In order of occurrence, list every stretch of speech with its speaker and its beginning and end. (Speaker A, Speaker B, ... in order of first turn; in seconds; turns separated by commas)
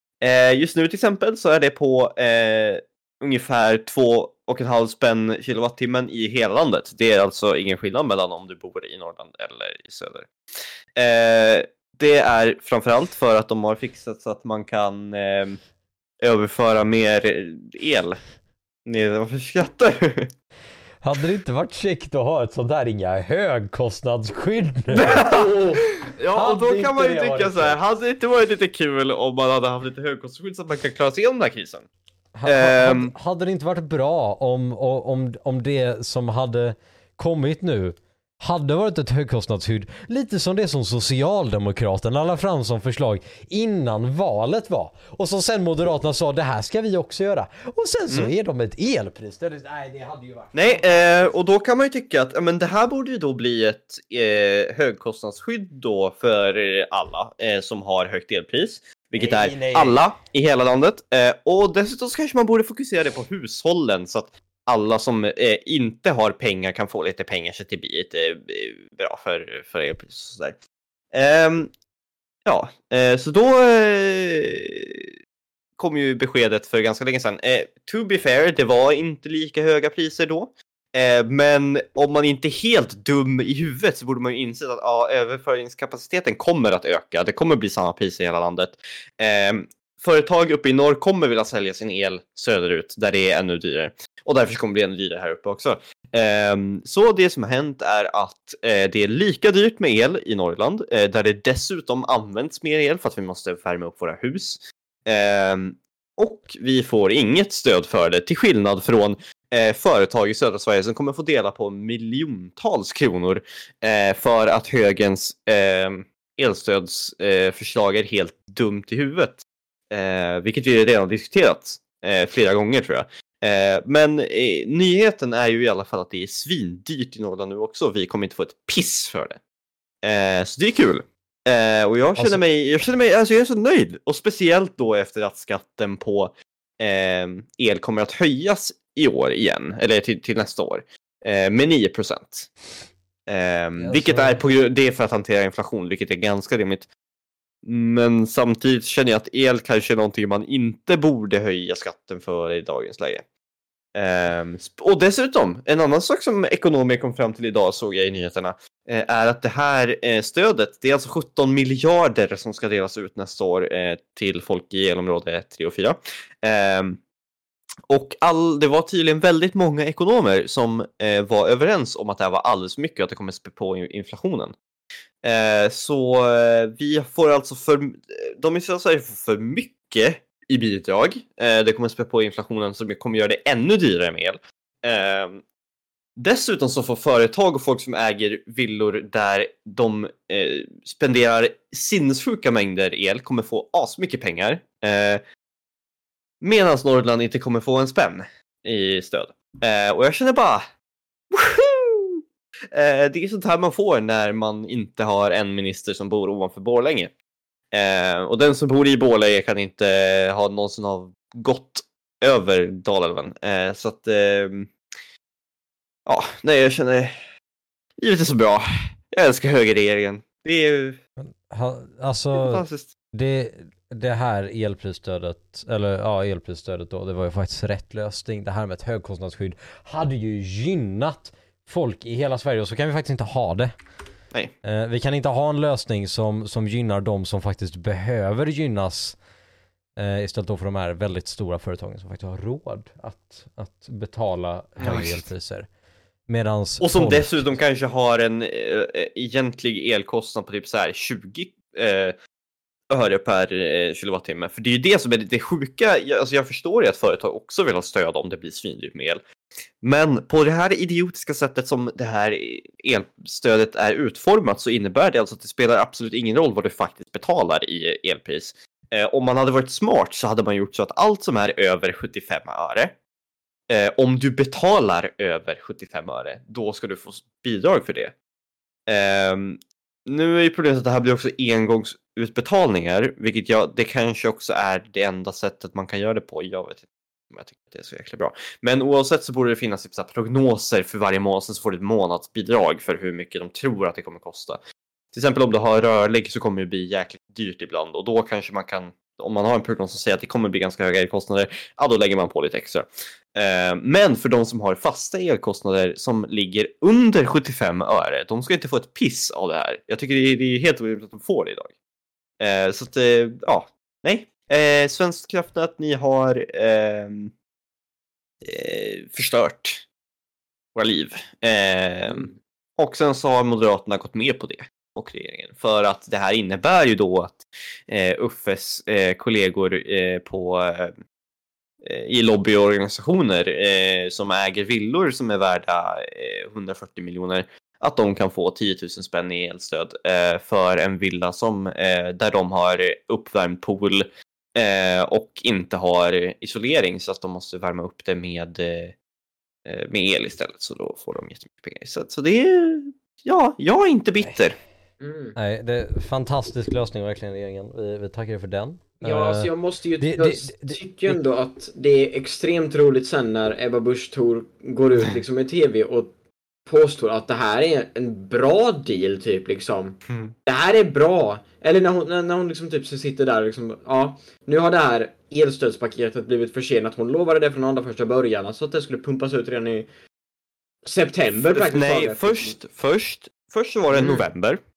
Speaker A: 0.2-10.3, Speaker A: 10.9-15.6, Speaker A: 16.2-18.2, Speaker A: 18.9-20.3, Speaker B: 21.0-25.3, Speaker A: 24.9-31.9, Speaker C: 25.0-25.9, Speaker B: 26.4-27.8, Speaker B: 32.4-51.1, Speaker A: 32.5-33.1, Speaker A: 50.5-70.6, Speaker B: 59.2-60.0, Speaker A: 71.1-71.7, Speaker A: 72.5-75.1, Speaker A: 75.8-129.4, Speaker A: 130.0-142.5, Speaker B: 132.2-132.4, Speaker A: 143.3-146.9, Speaker B: 143.8-144.4, Speaker A: 147.6-153.2, Speaker A: 153.9-167.0, Speaker A: 167.9-174.6, Speaker A: 175.2-185.4, Speaker A: 186.2-195.2, Speaker A: 196.4-200.6, Speaker A: 201.3-207.1, Speaker A: 207.7-214.7, Speaker A: 216.1-217.2, Speaker A: 218.0-221.0, Speaker B: 221.2-233.7, Speaker A: 222.3-222.9, Speaker B: 234.6-239.2, Speaker B: 240.0-245.7, Speaker A: 244.8-245.3, Speaker B: 246.3-247.5, Speaker A: 246.8-252.2, Speaker A: 252.9-259.2, Speaker A: 259.8-273.0, Speaker A: 273.7-278.1, Speaker A: 278.9-294.6, Speaker A: 295.1-311.7, Speaker A: 312.4-317.3, Speaker A: 318.4-319.8, Speaker A: 320.8-330.9, Speaker C: 322.1-322.4, Speaker A: 331.8-349.0, Speaker A: 349.6-354.6, Speaker C: 355.0-355.4, Speaker B: 355.4-361.2, Speaker C: 359.0-366.1, Speaker C: 366.7-379.9, Speaker A: 370.1-370.3, Speaker C: 380.8-382.6, Speaker A: 381.5-384.6, Speaker C: 383.9-384.3